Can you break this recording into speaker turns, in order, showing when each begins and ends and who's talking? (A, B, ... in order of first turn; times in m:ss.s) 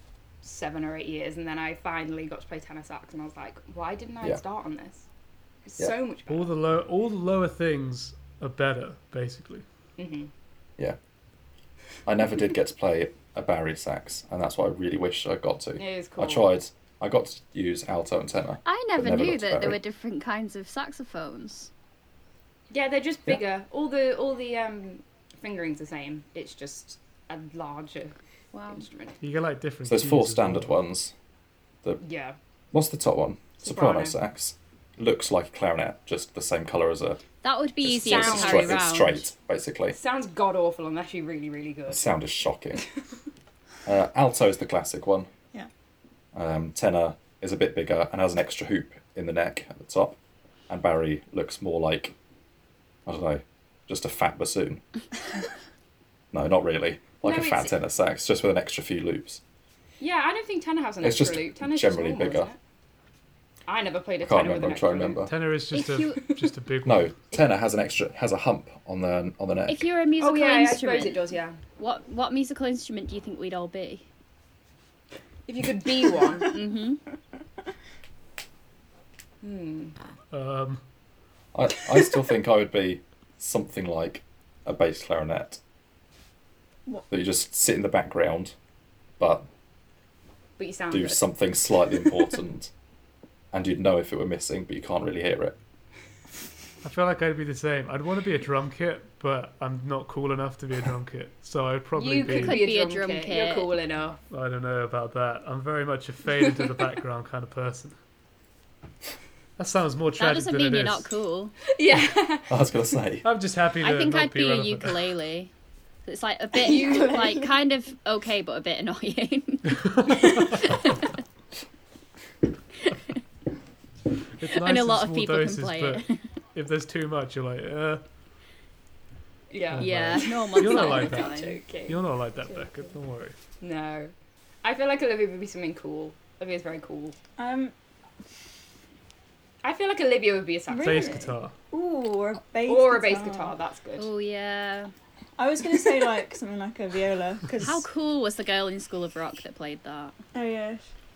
0:00.4-0:05.0 A
0:05.6-0:06.5 A
0:06.3-0:09.6 B
0:10.0-0:10.3 A
0:12.0-0:19.8 C
0:15.8-0:16.5 A
0:18.6-0:21.7 D
0:22.7-0:28.1 A
0:28.5-0:28.8 D
0:28.7-0:29.2 A
0:29.2-0:30.7 B
0:29.8-0:31.1 C
0:32.0-0:32.4 A
0:32.7-0:37.2 C
0:33.6-0:34.2 A
0:37.4-0:39.2 D
0:37.8-0:40.0 C
0:37.9-0:38.8 A
0:39.9-0:42.1 A
0:41.9-0:42.8 C
0:43.8-0:45.3 C
0:46.3-0:50.2 C
0:50.7-0:52.2 C
0:53.0-0:54.8 C
0:56.3-0:59.4 C
0:57.2-0:57.7 A
1:00.0-1:02.6 A
1:01.0-1:02.5 C
1:03.7-1:05.2 A
1:04.2-1:05.3 C
1:05.2-1:07.1 B
1:05.7-1:06.2 D
1:06.8-1:09.9 C
1:09.7-1:11.2 D
1:10.2-1:11.6 A
1:11.8-1:14.0 D
1:15.5-1:16.5 A
1:16.5-1:17.0 D
1:19.4-1:20.0 A
1:20.3-1:20.8 B
1:21.5-1:25.6 C
1:27.1-1:28.5 C
1:29.2-1:29.4 C
1:30.6-1:31.3 A
1:30.9-1:32.7 C
1:31.9-1:32.2 A
1:33.5-1:35.6 C
1:36.8-1:42.6 B
1:42.0-1:44.2 A
1:42.3-1:43.7 D
1:44.3-1:48.0 B
1:46.4-1:46.7 A
1:49.6-1:51.1 B
1:50.2-1:51.6 D
1:51.7-1:52.6 A
1:52.5-1:53.2 C
1:53.2-1:55.1 B
1:53.8-1:55.5 D
1:56.0-2:00.9 D
1:56.6-1:57.2 A
1:59.7-2:00.7 B
2:02.9-2:03.2 D
2:04.4-2:08.0 B
2:04.5-2:06.2 D
2:09.5-2:12.7 A
2:09.7-2:13.3 B
2:09.8-2:11.6 D
2:13.6-2:14.1 A
2:14.6-2:17.2 A
2:17.4-2:17.7 E
2:19.6-2:21.2 A
2:20.7-2:23.5 E
2:20.8-2:21.5 B
2:22.6-2:24.1 A
2:24.0-2:24.9 D
2:25.4-2:27.8 E
2:27.6-2:30.2 D
2:30.3-2:30.8 E